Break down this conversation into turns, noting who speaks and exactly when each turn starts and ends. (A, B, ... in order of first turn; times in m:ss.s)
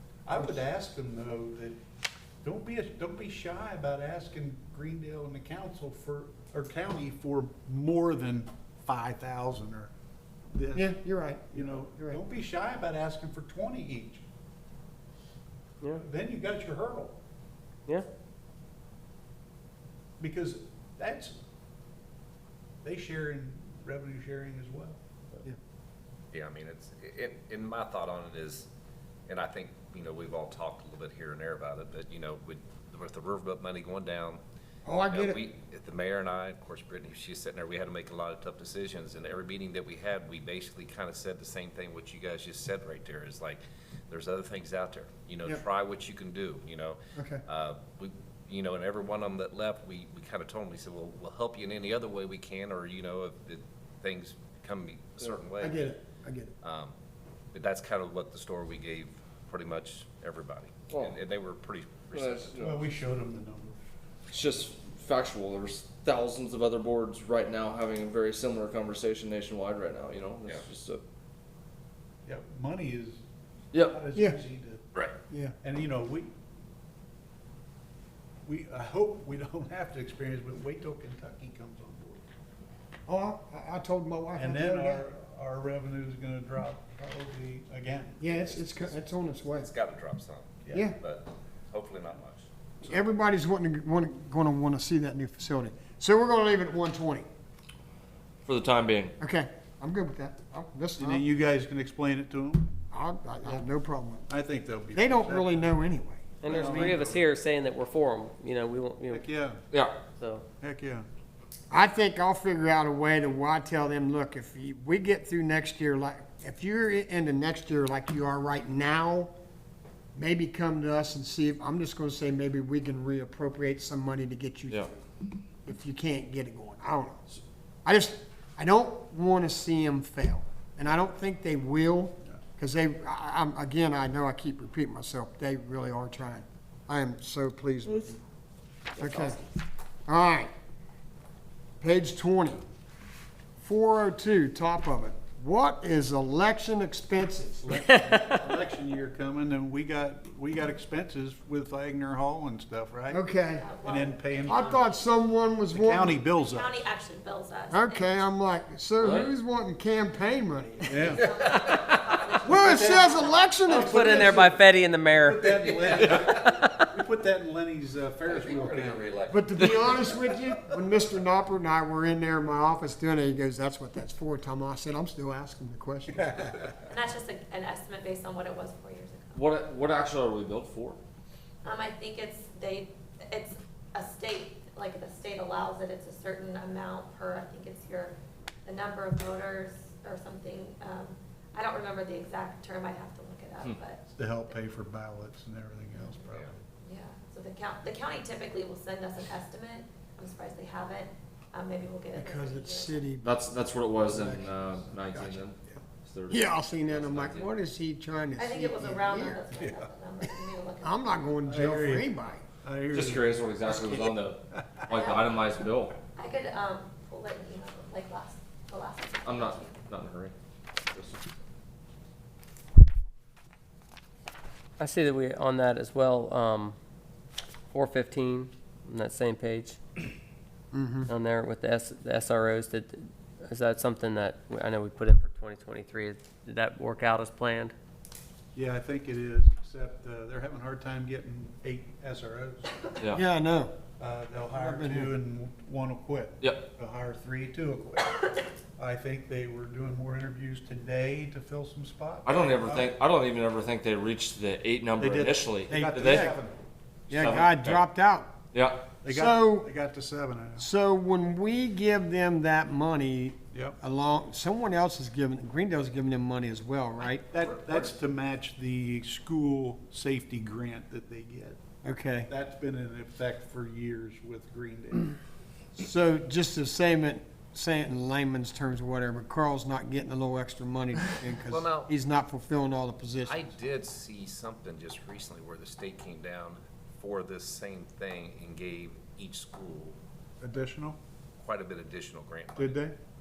0:00.2-0:01.8 A
0:02.4-0:09.9 A
0:10.5-0:14.2 A
0:10.7-0:12.2 B
0:15.9-0:17.2 A
0:20.2-0:21.4 A
0:22.8-0:25.0 A
0:26.3-0:28.7 C
0:29.3-0:34.4 C
0:34.8-0:35.4 B
0:35.1-0:55.9 C
0:47.2-0:47.4 B
0:55.6-0:56.5 B
0:56.6-0:56.9 C
0:57.5-1:02.6 C
1:00.9-1:01.2 D
1:02.1-1:02.9 D
1:02.6-1:03.8 A
1:04.3-1:11.0 D
1:12.2-1:13.2 A
1:13.7-1:14.0 D
1:13.7-1:14.8 A
1:15.3-1:15.6 B
1:15.6-1:16.3 A
1:18.4-1:22.2 A
1:23.1-1:25.0 B
1:24.3-1:28.6 A
1:28.2-1:29.7 B
1:28.6-1:28.9 C
1:29.4-1:32.5 C
1:30.7-1:31.0 B
1:32.8-1:37.3 B
1:38.4-1:39.1 D
1:39.2-1:41.2 B
1:41.0-1:42.7 A
1:42.9-1:44.3 B
1:44.3-1:45.7 A
1:44.9-1:47.2 B
1:46.4-1:49.3 E
1:46.5-1:47.2 A
1:49.1-1:49.6 A
1:49.7-1:50.0 D
1:50.2-1:50.4 E
1:50.6-1:51.0 A
1:51.7-1:59.3 B
2:00.1-2:04.9 B
2:05.6-2:07.2 B
2:07.8-2:18.2 B
2:19.0-2:19.4 B
2:20.1-2:20.5 B
2:21.8-2:22.6 B
2:23.6-2:27.9 B
2:27.6-2:33.2 A
2:27.8-2:28.4 E
2:33.1-2:33.7 B
2:33.5-2:35.0 F
2:33.8-2:34.6 A
2:34.4-2:36.2 B
2:35.7-2:36.8 A
2:36.4-2:38.2 F
2:37.7-2:41.2 B
2:39.0-2:39.3 D
2:40.9-2:41.2 A
2:41.0-2:43.4 F
2:42.4-2:44.5 B
2:42.5-2:43.0 A
2:43.6-2:45.9 E
2:45.1-2:49.0 A
2:48.3-2:49.1 C
2:48.5-2:50.1 D
2:49.3-2:56.7 B
2:56.2-2:56.6 A
2:56.9-2:59.4 F
2:59.3-3:01.0 D
3:01.6-3:14.5 F
3:14.1-3:16.6 A
3:16.2-3:16.5 C
3:16.8-3:23.1 F
3:22.1-3:23.3 B
3:23.2-3:27.5 D
3:24.0-3:24.5 B
3:25.1-3:29.4 B
3:28.4-3:31.0 F
3:29.5-3:29.8 A
3:30.8-3:32.4 B
3:31.4-3:34.1 A
3:32.9-3:35.9 D
3:35.0-3:35.3 F
3:36.1-3:39.8 F
3:39.2-3:41.4 D
3:44.8-3:46.8 E
3:47.7-3:49.8 E
3:50.7-3:51.1 B
3:51.1-3:57.7 E
3:58.5-4:02.9 A
4:03.1-4:03.7 B
4:04.0-4:12.9 A
4:04.5-4:05.1 B
4:06.4-4:06.7 D
4:12.2-4:16.3 D
4:15.0-4:16.6 A
4:15.7-4:16.2 B
4:17.1-4:17.8 D
4:17.1-4:18.3 B
4:18.5-4:18.9 D
4:18.9-4:20.7 A
4:19.1-4:19.7 B
4:20.6-4:27.4 B
4:23.5-4:23.8 A
4:27.3-4:31.6 A
4:31.8-4:32.3 B
4:32.3-4:35.1 A
4:35.8-4:43.4 B
4:41.5-4:41.9 C
4:43.2-4:50.0 C
4:50.4-4:51.0 A
4:51.4-4:52.8 C
4:52.6-4:53.0 A